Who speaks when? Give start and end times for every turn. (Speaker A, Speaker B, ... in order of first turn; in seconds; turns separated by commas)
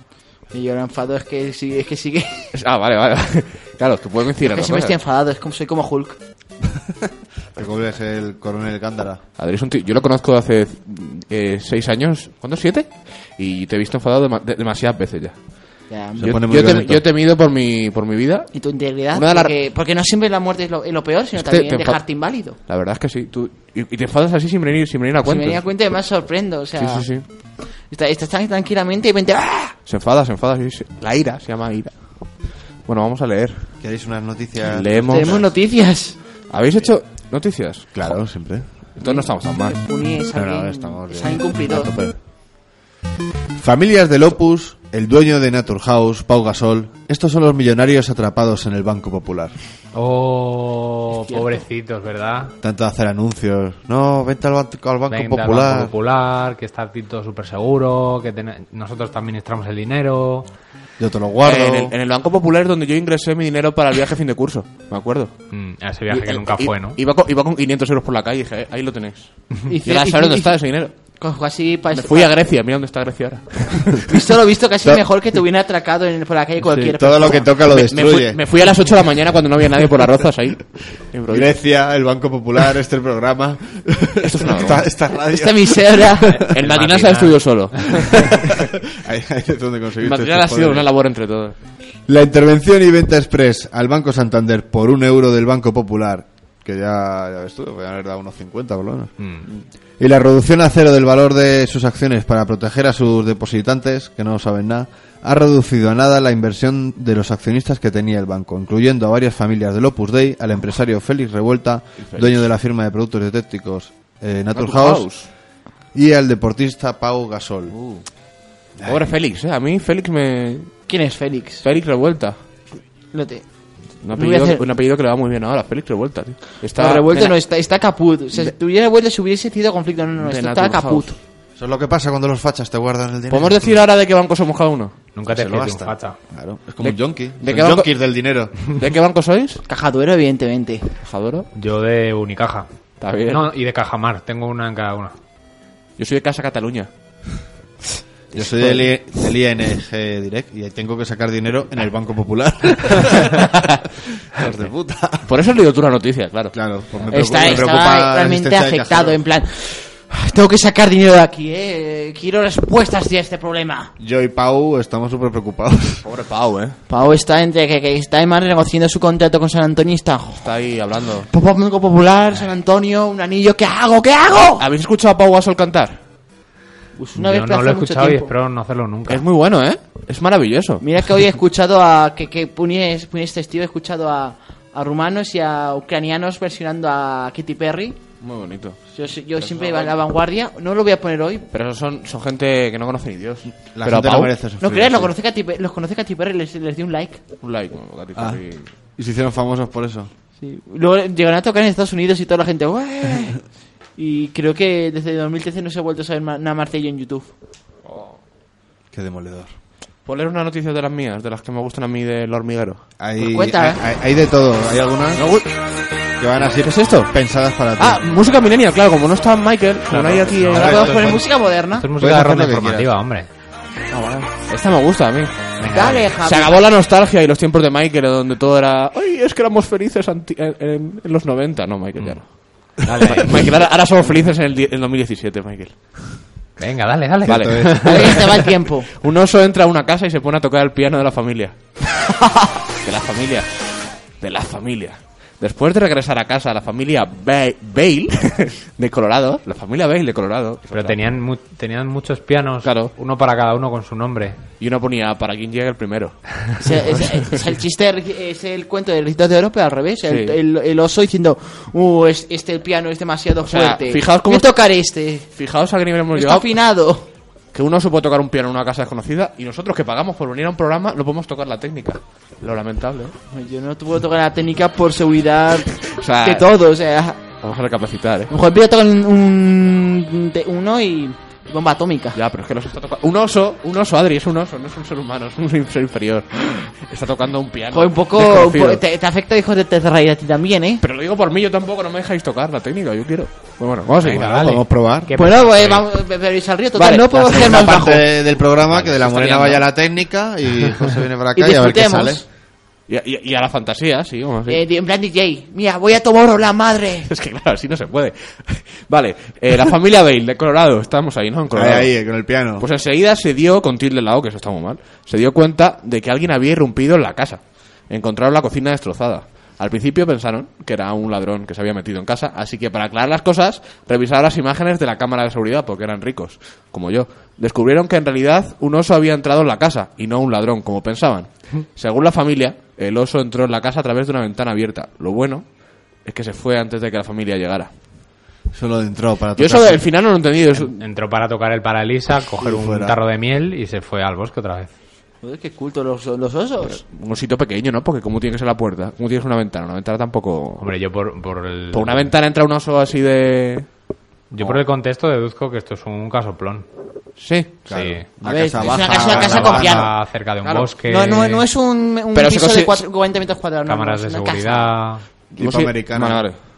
Speaker A: 0.5-2.5, Speaker B: 2.5-5.0, Speaker A: 4.4-6.2, Speaker C: 7.5-9.2, Speaker B: 9.4-18.6, Speaker A: 15.9-16.3, Speaker C: 16.2-17.0, Speaker A: 18.5-22.6, Speaker B: 19.1-19.5, Speaker B: 21.4-22.0, Speaker B: 22.5-25.7, Speaker A: 25.2-29.8, Speaker B: 26.8-27.2, Speaker B: 29.9-33.7, Speaker C: 33.8-35.5, Speaker B: 34.6-35.4, Speaker A: 35.1-36.2, Speaker B: 36.5-37.9, Speaker C: 37.9-38.7, Speaker B: 39.0-39.8, Speaker A: 39.0-41.9, Speaker C: 40.3-42.2, Speaker C: 43.6-49.5, Speaker D: 49.9-52.5, Speaker A: 51.3-51.6, Speaker C: 52.6-55.9, Speaker D: 55.1-60.5, Speaker C: 61.0-61.9, Speaker B: 61.4-65.4, Speaker D: 65.5-67.0, Speaker B: 66.1-69.3, Speaker A: 69.7-70.5, Speaker B: 69.8-70.9, Speaker A: 71.2-72.3, Speaker B: 71.9-74.0, Speaker A: 74.0-77.5, Speaker C: 76.7-78.4, Speaker B: 77.7-81.5, Speaker C: 81.3-86.5, Speaker B: 84.2-84.8, Speaker A: 85.3-86.5, Speaker D: 86.4-88.2, Speaker B: 86.5-88.5, Speaker C: 88.9-90.9, Speaker B: 90.0-91.6, Speaker C: 92.1-99.1, Speaker C: 100.0-115.1, Speaker B: 112.0-112.5, Speaker B: 114.5-115.3, Speaker C: 115.9-117.8, Speaker B: 117.7-118.0, Speaker C: 118.8-119.0, Speaker B: 118.8-120.9, Speaker A: 120.9-121.7, Speaker B: 121.6-122.4, Speaker A: 123.1-123.5, Speaker B: 124.0-127.4, Speaker A: 124.2-124.6, Speaker A: 126.8-131.2, Speaker B: 130.2-131.2, Speaker C: 131.6-133.8, Speaker B: 133.3-135.0, Speaker D: 135.2-136.2, Speaker C: 135.3-138.6, Speaker B: 136.8-137.9, Speaker B: 138.8-139.6, Speaker A: 139.7-140.9, Speaker B: 141.0-141.5, Speaker D: 141.6-142.7, Speaker B: 143.0-143.4, Speaker D: 143.3-145.2, Speaker B: 146.0-146.9, Speaker C: 148.3-153.6, Speaker B: 148.3-148.9, Speaker C: 154.2-155.3, Speaker B: 155.2-157.6, Speaker C: 156.5-159.2, Speaker A: 157.1-163.9, Speaker C: 164.0-166.1, Speaker B: 166.0-166.8, Speaker A: 166.9-170.5, Speaker B: 170.4-171.3, Speaker A: 171.3-174.6, Speaker B: 174.6-176.0, Speaker A: 177.0-178.3, Speaker D: 177.2-179.2, Speaker B: 179.1-180.8, Speaker A: 180.8-188.0, Speaker B: 188.2-188.8, Speaker A: 188.9-191.5, Speaker B: 189.4-189.9, Speaker B: 191.5-194.3, Speaker C: 193.7-195.1, Speaker A: 194.6-197.2, Speaker B: 197.4-198.7, Speaker C: 198.2-198.4, Speaker C: 199.0-200.1, Speaker A: 200.4-203.4, Speaker A: 204.0-207.3, Speaker B: 207.8-208.2, Speaker C: 208.9-209.5, Speaker B: 210.1-212.8, Speaker C: 213.0-215.3, Speaker A: 213.2-213.8, Speaker B: 215.2-215.5, Speaker C: 216.2-218.2, Speaker B: 216.5-217.1, Speaker B: 217.8-220.9, Speaker D: 219.9-223.3, Speaker C: 220.3-221.2, Speaker A: 220.5-221.9, Speaker C: 222.0-222.9, Speaker B: 224.0-236.2, Speaker D: 225.6-226.0, Speaker A: 225.7-226.6, Speaker C: 232.8-233.2, Speaker D: 236.6-238.3, Speaker C: 237.2-238.0, Speaker B: 237.3-241.7, Speaker A: 237.8-238.9, Speaker B: 242.8-251.1, Speaker D: 250.7-254.4, Speaker B: 252.6-252.9, Speaker B: 254.6-257.0, Speaker A: 256.6-265.3, Speaker B: 260.1-260.4, Speaker B: 263.5-264.6, Speaker B: 265.4-266.5, Speaker A: 266.1-267.1, Speaker B: 267.5-273.1, Speaker A: 273.3-277.2, Speaker B: 276.0-276.5, Speaker B: 277.4-278.3, Speaker A: 278.3-282.2, Speaker B: 282.1-288.8, Speaker A: 287.7-290.8, Speaker B: 290.8-294.5, Speaker C: 294.0-295.1, Speaker D: 294.1-295.9, Speaker A: 295.1-298.1, Speaker B: 296.8-297.7, Speaker C: 297.1-302.2, Speaker B: 298.7-299.6, Speaker A: 301.4-302.2, Speaker B: 302.9-304.6, Speaker A: 304.5-307.1, Speaker B: 307.1-335.5, Speaker C: 311.5-312.6, Speaker B: 336.0-337.7, Speaker C: 338.5-339.8, Speaker B: 339.4-340.8, Speaker D: 340.6-344.7, Speaker C: 342.4-343.0, Speaker A: 345.2-346.8, Speaker B: 346.7-350.6, Speaker D: 350.6-352.1, Speaker B: 351.7-353.7, Speaker D: 354.3-356.7, Speaker B: 357.2-357.7, Speaker C: 357.7-359.9, Speaker D: 357.7-358.1, Speaker A: 358.2-359.9, Speaker D: 358.7-361.4, Speaker B: 360.4-360.7, Speaker A: 360.9-364.7, Speaker B: 362.1-362.9, Speaker D: 363.7-365.1, Speaker B: 365.3-366.4, Speaker C: 365.4-366.2